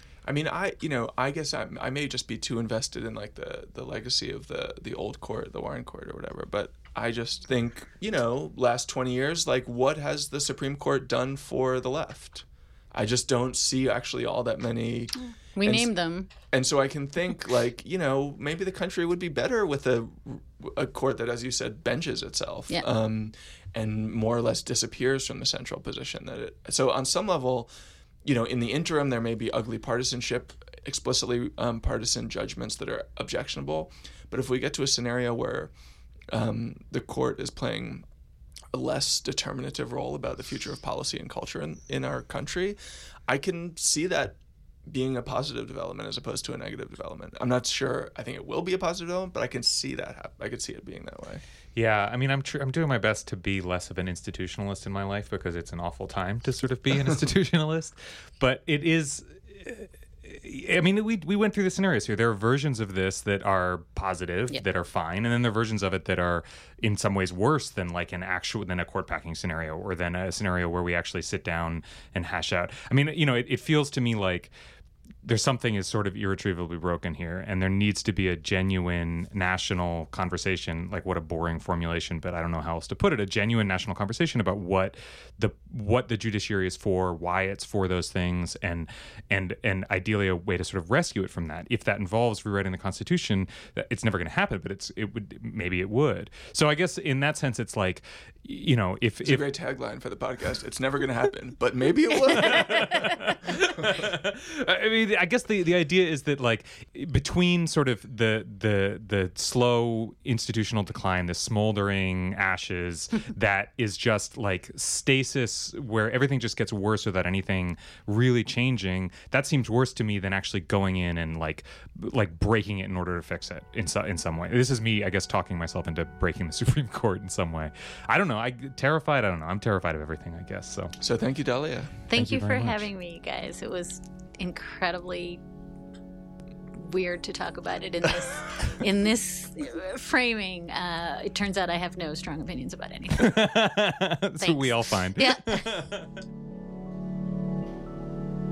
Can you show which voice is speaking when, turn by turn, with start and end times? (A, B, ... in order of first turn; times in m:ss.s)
0:00.2-0:15.9 A
0:15.5-0:16.3 B
0:16.5-0:27.7 A
0:28.2-0:35.7 A
0:36.3-0:38.0 A
0:38.7-0:51.4 A
0:51.8-1:14.5 C
1:15.2-1:39.4 C
1:39.2-1:43.0 A
1:42.3-2:11.0 C
2:11.0-2:12.0 A
2:12.1-2:15.4 B
2:12.1-2:12.9 C
2:16.8-2:23.6 B
2:23.2-2:26.1 C
2:24.4-2:25.7 B